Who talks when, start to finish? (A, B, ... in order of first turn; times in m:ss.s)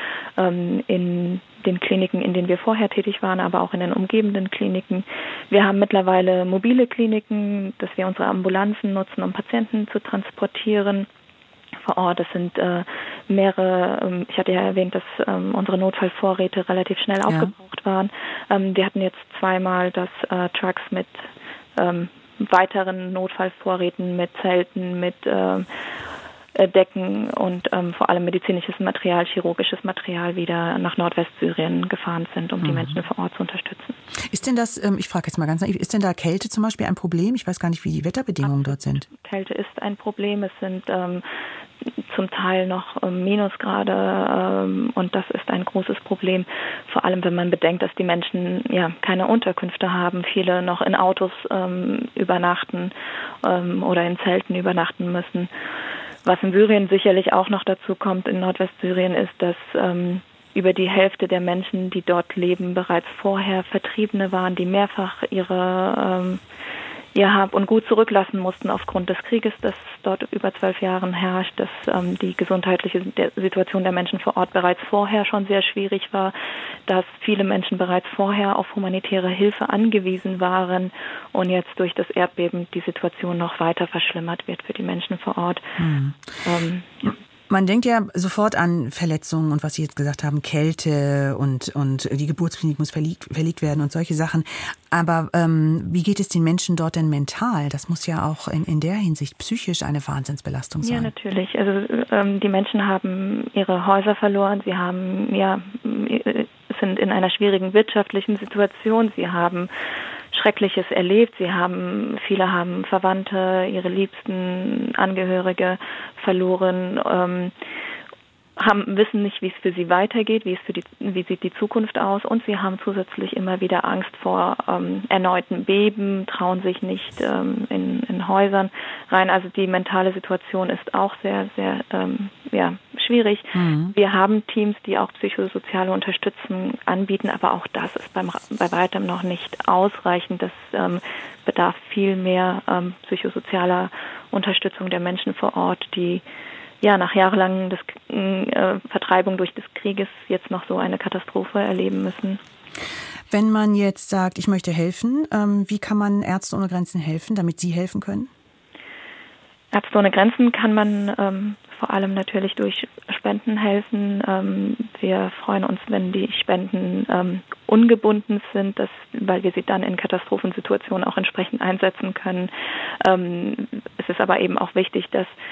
0:00.4-0:11.1 A
0:11.8-0:25.7 A
0:26.5-0:34.0 A
0:32.6-0:32.9 B
0:34.3-0:39.1 B
0:38.5-0:41.2 A
0:41.8-0:55.5 A
0:56.2-1:06.4 A
1:07.1-1:16.3 A
1:16.8-1:25.8 A
1:25.8-1:26.2 B
1:26.4-1:27.1 A
1:27.5-1:41.1 B
1:40.8-1:49.7 A
1:50.3-1:57.5 A
1:58.6-2:26.2 A
2:13.5-2:13.9 B
2:26.8-2:32.4 A
2:33.3-2:38.3 B
2:39.7-2:55.4 A